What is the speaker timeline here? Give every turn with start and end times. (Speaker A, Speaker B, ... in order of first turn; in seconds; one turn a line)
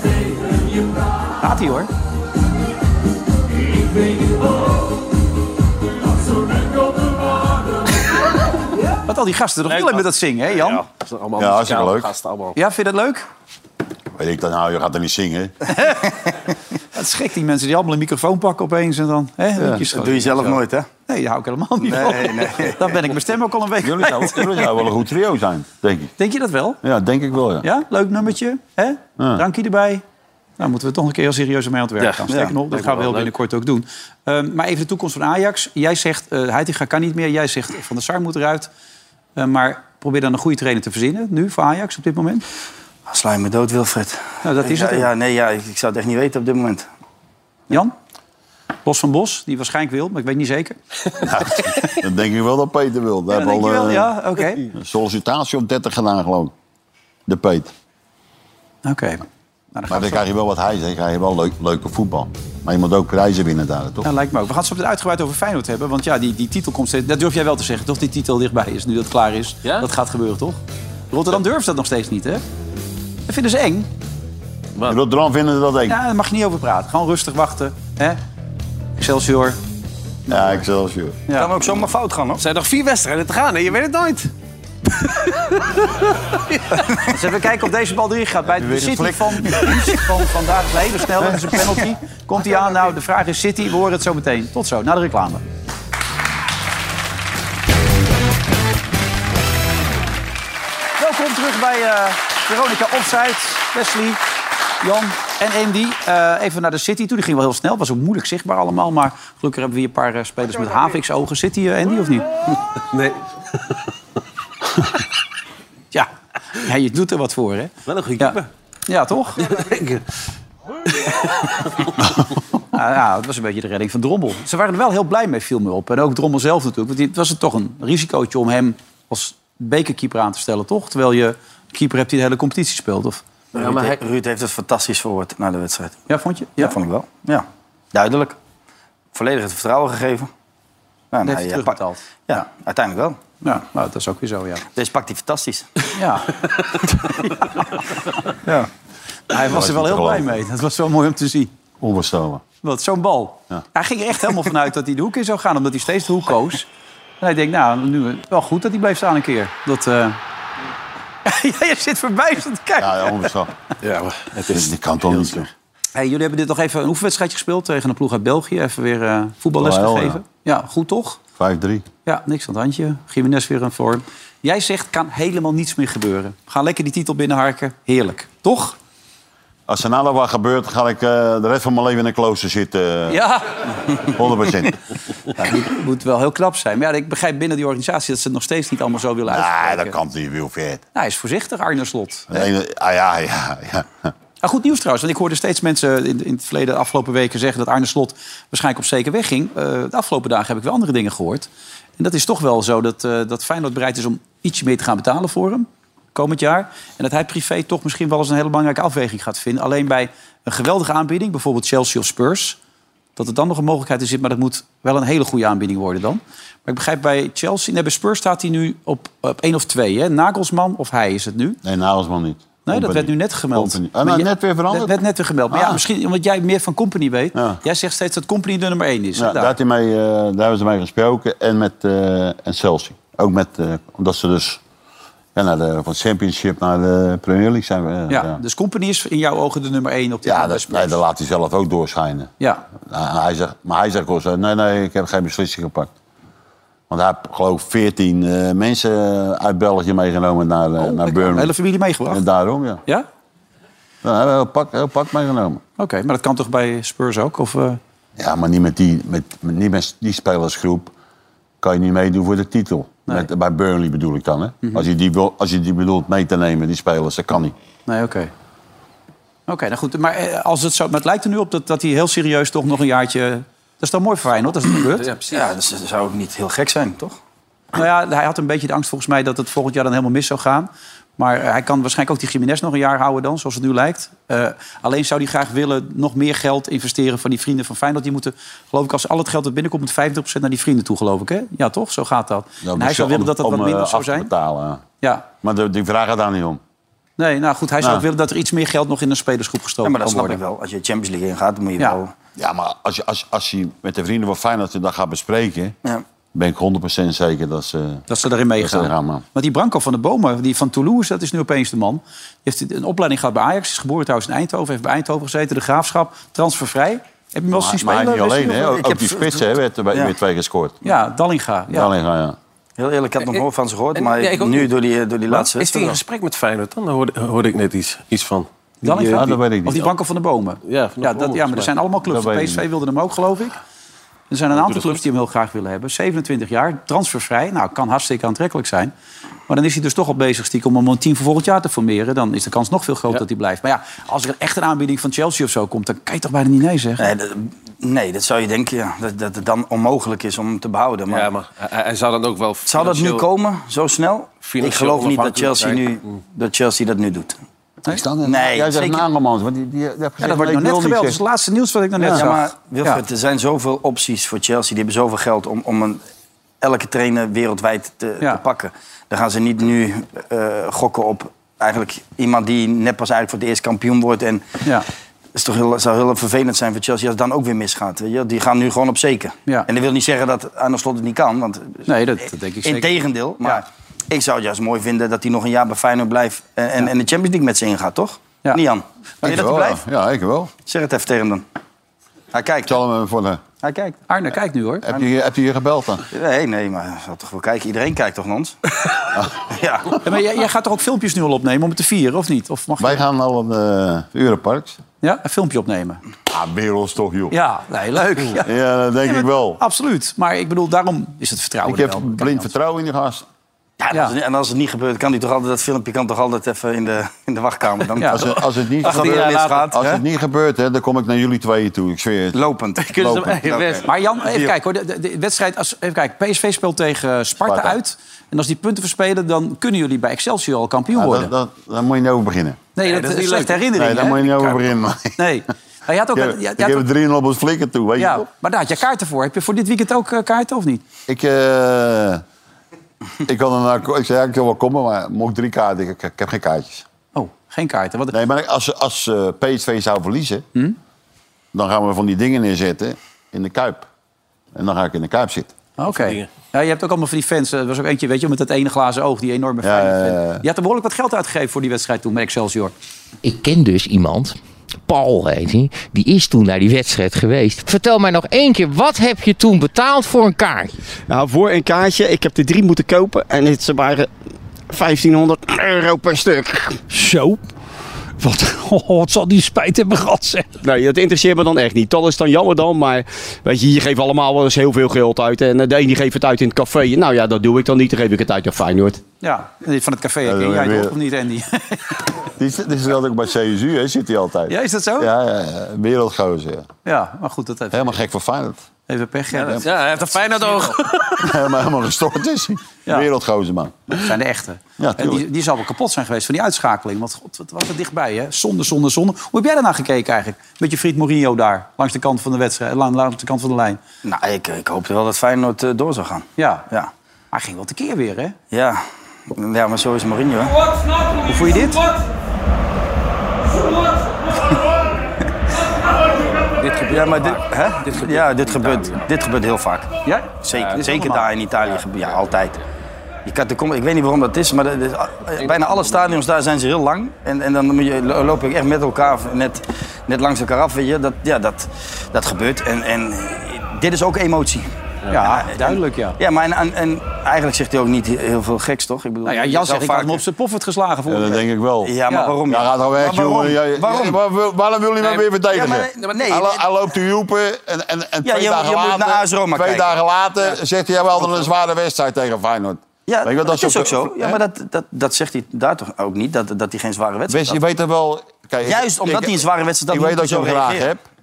Speaker A: 1.4-1.9
Speaker A: 9.1-10.8
Speaker B: 9.7-12.6
Speaker C: 11.4-12.1
Speaker A: 12.5-13.2
Speaker C: 14.1-15.5
Speaker A: 16.9-24.8
Speaker D: 19.8-20.9
Speaker D: 21.8-22.9
Speaker C: 23.8-26.1
Speaker A: 26.2-26.8
Speaker C: 26.8-27.6
Speaker A: 27.6-30.0
Speaker A: 30.6-38.7
Speaker B: 32.0-33.3
Speaker D: 32.3-32.5
Speaker A: 39.4-42.4
Speaker D: 43.1-46.9
Speaker A: 44.4-45.1
Speaker A: 48.8-50.8
Speaker C: 51.2-54.1
Speaker A: 51.5-51.9
Speaker A: 53.3-54.7
Speaker C: 54.7-56.5
Speaker C: 57.3-57.7
Speaker A: 58.8-60.2
Speaker C: 59.9-64.1
Speaker A: 64.0-70.6
Speaker A: 71.1-72.4
Speaker A: 73.3-73.9
Speaker C: 74.8-76.0
Speaker A: 75.9-78.2
Speaker A: 79.0-79.6
Speaker C: 80.3-81.2
Speaker D: 81.3-82.4
Speaker B: 82.4-84.3
Speaker A: 87.1-95.4
Speaker C: 88.5-89.6
Speaker A: 101.0-104.2
Speaker A: 104.8-112.2
Speaker B: 112.9-113.2
Speaker A: 115.9-119.6
Speaker B: 117.8-118.5
Speaker B: 119.5-120.0
Speaker B: 121.0-121.6
Speaker A: 122.7-133.2
Speaker D: 133.5-136.1
Speaker B: 133.6-133.9
Speaker A: 136.1-136.8
Speaker D: 136.6-138.4
Speaker D: 139.1-140.3
Speaker D: 141.1-143.2
Speaker A: 141.2-142.4
Speaker A: 143.4-144.6
Speaker D: 144.7-145.7
Speaker A: 145.9-147.7
Speaker A: 148.4-148.7
Speaker A: 149.3-151.5
Speaker C: 149.4-150.4
Speaker C: 151.8-152.4
Speaker A: 152.6-156.7
Speaker A: 157.2-160.2
Speaker A: 161.2-163.3
Speaker C: 162.8-163.5
Speaker B: 163.8-165.3
Speaker C: 164.4-165.5
Speaker A: 165.9-171.2
Speaker C: 169.6-170.2
Speaker C: 171.4-171.8
Speaker A: 172.1-178.8
Speaker C: 179.7-183.2
Speaker A: 183.1-183.5
Speaker C: 184.1-184.8
Speaker A: 185.4-189.9
Speaker C: 189.3-190.8
Speaker A: 190.9-192.5
Speaker C: 192.3-194.1
Speaker A: 194.4-212.6
Speaker A: 213.2-221.6
Speaker C: 221.6-225.0
Speaker A: 222.6-229.5
Speaker C: 225.5-225.8
Speaker C: 229.2-234.6
Speaker C: 235.3-238.4
Speaker A: 238.1-241.0
Speaker C: 240.2-245.9
Speaker A: 242.4-242.6
Speaker C: 246.9-251.5
Speaker A: 250.8-252.2
Speaker C: 252.1-252.8
Speaker C: 254.0-255.6
Speaker A: 255.8-257.8
Speaker C: 258.2-260.9
Speaker C: 261.6-267.5
Speaker A: 267.9-268.3
Speaker A: 269.5-275.1
Speaker B: 275.0-275.5
Speaker D: 275.2-277.2
Speaker A: 277.7-294.3
Speaker C: 292.6-294.8
Speaker A: 295.0-295.3
Speaker C: 295.4-296.6
Speaker A: 297.2-300.4
Speaker D: 299.8-302.1
Speaker C: 302.4-305.7
Speaker C: 306.3-308.1
Speaker A: 308.1-318.8
Speaker C: 308.6-309.2
Speaker C: 317.5-320.8
Speaker D: 318.7-320.1
Speaker A: 320.8-321.9
Speaker C: 321.7-322.4
Speaker D: 322.8-326.0
Speaker B: 323.9-324.7
Speaker B: 325.3-328.5
Speaker A: 328.8-333.6
Speaker C: 328.8-329.9
Speaker B: 330.6-331.7
Speaker C: 332.1-332.6
Speaker A: 334.3-338.9
Speaker B: 334.5-335.0
Speaker A: 339.5-347.1
Speaker D: 347.0-351.3
Speaker B: 351.1-353.2
Speaker D: 352.7-357.4
Speaker B: 354.4-356.1
Speaker C: 357.9-361.2
Speaker D: 358.2-359.0
Speaker A: 360.2-363.0
Speaker D: 362.0-366.0
Speaker D: 366.6-374.4
Speaker D: 375.3-381.8
Speaker A: 381.9-383.6
Speaker D: 382.6-389.8
Speaker C: 389.2-390.5
Speaker D: 390.6-391.4
Speaker D: 392.3-392.7
Speaker C: 392.6-393.4
Speaker D: 393.6-394.0
Speaker A: 394.1-394.9
Speaker C: 394.8-396.1
Speaker D: 396.1-398.6
Speaker D: 399.5-400.0
Speaker A: 400.0-403.0
Speaker C: 402.8-404.8
Speaker A: 405.0-406.0
Speaker C: 406.3-407.4
Speaker A: 407.3-408.5
Speaker C: 408.3-409.6
Speaker A: 409.0-412.5
Speaker C: 411.6-413.2
Speaker D: 413.8-420.0
Speaker A: 418.0-418.2
Speaker C: 418.1-422.4
Speaker B: 419.0-419.5
Speaker D: 422.3-423.9
Speaker B: 422.8-423.9
Speaker C: 422.9-423.4
Speaker A: 423.8-431.3
Speaker C: 427.4-427.8
Speaker C: 430.9-432.6
Speaker A: 432.8-434.6
Speaker B: 432.8-433.6
Speaker C: 433.7-435.2
Speaker A: 435.1-436.9
Speaker C: 436.1-438.2
Speaker A: 438.0-440.8
Speaker C: 441.1-442.2
Speaker C: 443.2-446.8
Speaker A: 447.1-448.1
Speaker C: 448.1-450.4
Speaker C: 451.5-453.9
Speaker C: 454.5-455.5
Speaker A: 455.8-462.7
Speaker B: 455.9-456.3
Speaker C: 459.6-460.4
Speaker E: 463.2-470.7
Speaker F: 471.1-474.1
Speaker F: 474.7-476.8
Speaker F: 480.6-489.0
Speaker A: 489.2-492.0
Speaker C: 490.2-490.9
Speaker C: 492.4-496.7
Speaker A: 494.5-495.1
Speaker A: 496.8-498.0
Speaker C: 497.7-498.6
Speaker A: 498.9-499.8
Speaker B: 499.3-501.3
Speaker A: 500.3-500.7
Speaker C: 501.2-504.1
Speaker A: 503.9-513.8
Speaker C: 504.8-505.2
Speaker D: 514.0-516.9
Speaker A: 516.4-516.7
Speaker A: 517.3-518.4
Speaker D: 518.5-520.5
Speaker A: 521.2-521.9
Speaker B: 526.6-529.0
Speaker D: 526.9-529.9
Speaker A: 530.0-531.2
Speaker D: 530.4-532.6
Speaker B: 530.5-532.3
Speaker D: 533.2-550.2
Speaker B: 535.4-536.2
Speaker A: 545.1-546.2
Speaker A: 549.2-551.4
Speaker C: 551.1-564.4
Speaker D: 551.8-554.2
Speaker A: 552.1-552.3
Speaker D: 555.5-556.6
Speaker B: 556.0-556.3
Speaker D: 558.2-559.9
Speaker D: 563.1-567.6
Speaker C: 567.3-571.0
Speaker D: 568.6-570.9